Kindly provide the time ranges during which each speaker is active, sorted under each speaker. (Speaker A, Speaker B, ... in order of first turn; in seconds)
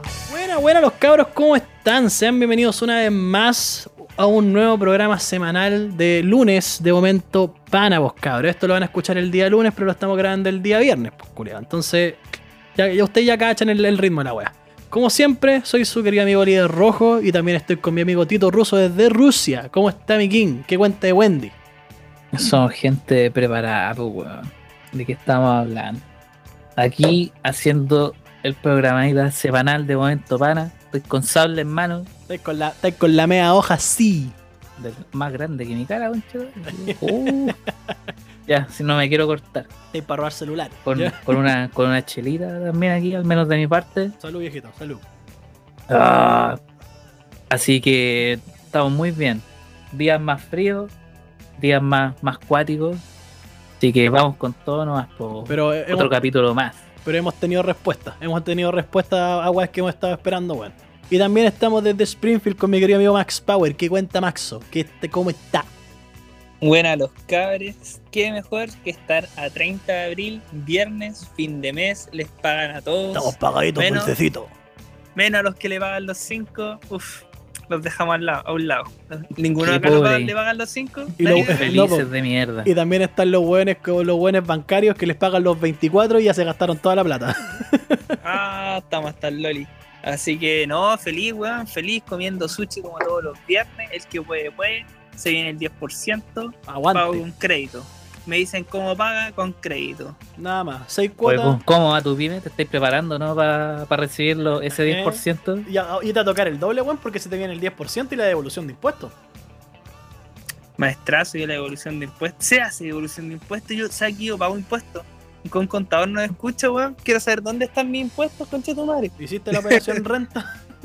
Speaker A: 0.3-21.5, 32.3-34.4, 36.6-37.9, 39.9-41.5, 44.2-45.0, 55.5-56.1, 57.0-65.7, 73.1-74.5, 81.2-82.1, 82.6-88.1, 96.7-97.2, 100.4-101.6, 104.7-109.1, 119.2-120.5
Speaker B: 22.3-26.0, 26.8-32.1, 34.8-37.6, 38.5-39.7, 40.8-44.1, 45.9-46.6, 47.5-50.9, 51.6-53.0, 53.8-56.8, 79.6-80.3, 81.3-82.7, 101.2-105.7
Speaker C: 66.6-74.1, 75.2-81.7, 88.2-100.2, 110.8-120.0